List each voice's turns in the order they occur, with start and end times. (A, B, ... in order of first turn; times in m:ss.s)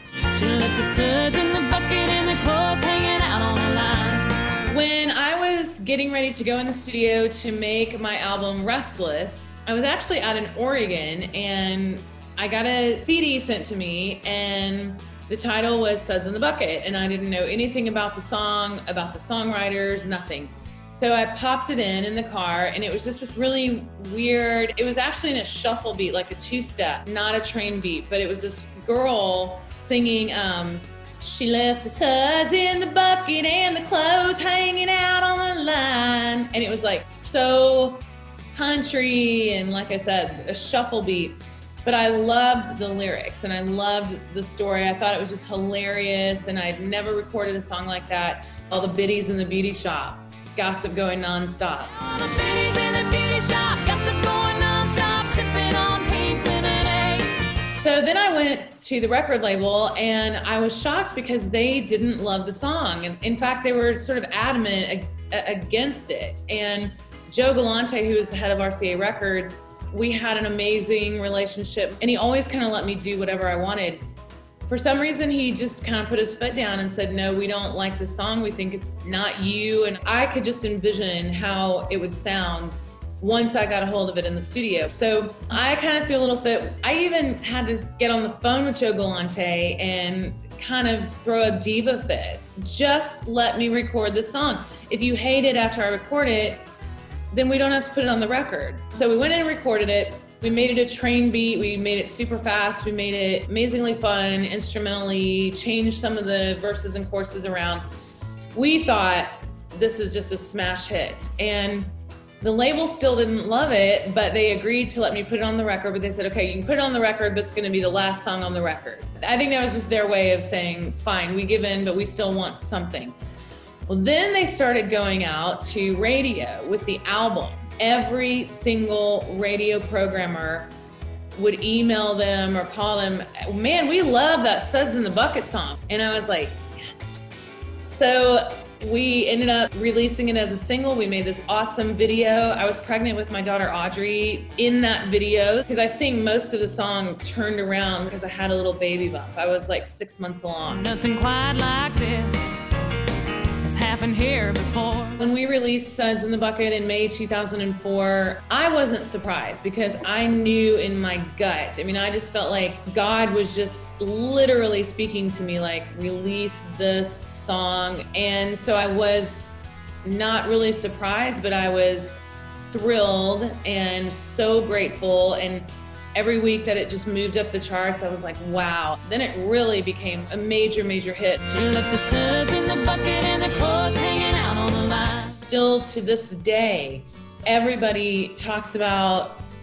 0:00.3-0:04.4 A
0:04.6-0:52.0 B
0:52.0-0:57.5 A
0:57.8-1:14.0 B
1:14.7-1:36.7 B
1:37.3-1:47.8 B
1:48.5-2:03.2 B
2:03.9-2:10.7 B
2:11.3-2:30.9 B
2:30.8-2:32.6 A
2:33.6-2:35.2 A
2:35.2-3:01.5 B
3:01.5-3:05.3 A
3:05.2-3:09.4 B